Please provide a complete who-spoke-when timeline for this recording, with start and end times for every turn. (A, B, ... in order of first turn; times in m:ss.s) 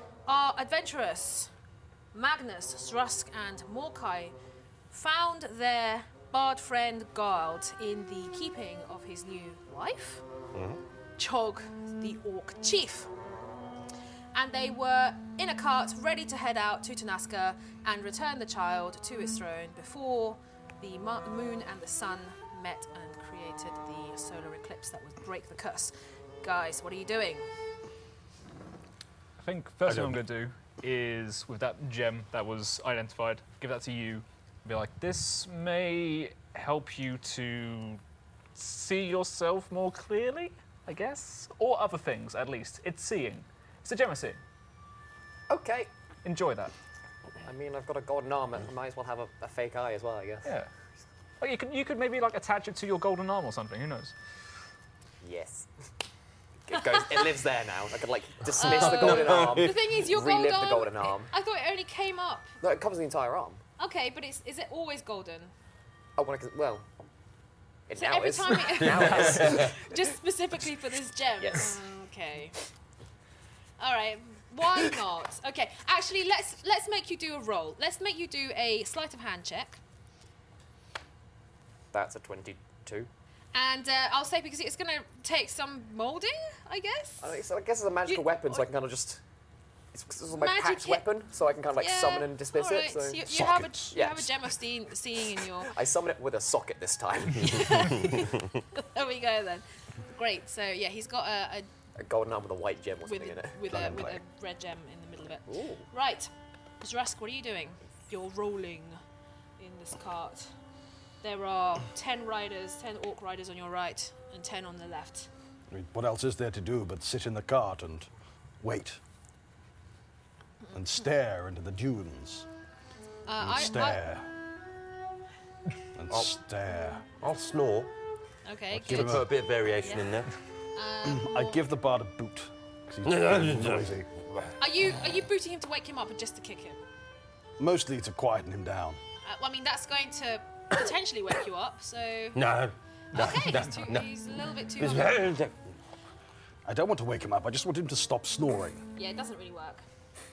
0:00.3-0:01.5 A
0:02.1-0:04.4 A
0:04.9-0:10.2 A
0:10.5-0:10.8 B
0:11.2-0:13.1 A
0:14.3-0:27.4 A
0:29.4-0:38.0 C
0:38.6-0:44.4 C
0:45.5-0:45.9 D
0:46.2-0:46.7 C
0:47.4-0:50.5 D
0:51.4-0:54.1 C
0:55.2-0:55.7 D
0:56.7-1:01.3 D
0:58.6-1:02.5 A
0:58.6-0:59.7 B
1:02.6-1:03.6 D
1:03.8-1:05.5 A
1:06.2-1:06.9 D
1:07.9-1:10.0 D
1:08.0-1:12.6 A
1:08.8-1:09.8 B
1:11.4-1:11.8 D
1:13.8-1:19.8 A
1:21.9-1:23.1 D
1:23.5-1:27.4 A
1:27.2-1:29.2 D
1:28.1-1:28.6 A
1:29.9-1:33.3 D
1:30.3-1:31.0 A
1:31.8-1:35.7 A
1:33.2-1:34.0 E
1:33.9-1:34.3 D
1:35.6-1:38.0 D
1:37.4-1:41.7 A
1:38.2-1:38.5 B
1:42.0-1:43.6 D
1:43.1-1:49.0 A
1:43.7-1:44.2 E
1:45.5-1:45.9 D
1:49.6-1:50.5 A
1:51.2-1:55.3 A
1:55.7-1:58.1 E
1:58.6-1:59.0 E
2:00.7-2:02.5 E
2:03.3-2:04.0 A
2:03.4-2:04.3 E
2:06.0-2:07.1 E
2:07.2-2:07.9 B
2:08.5-2:09.3 A
2:08.8-2:09.3 E
2:08.8-2:10.3 B
2:09.8-2:10.2 A
2:10.8-2:11.7 A
2:11.0-2:14.1 E
2:13.1-2:14.5 B
2:14.6-2:16.8 A
2:17.6-2:19.0 E
2:19.2-2:22.4 A
2:22.3-2:24.1 B
2:23.1-2:25.2 A
2:24.8-2:25.7 B
2:26.6-2:28.8 E
2:29.0-2:29.8 A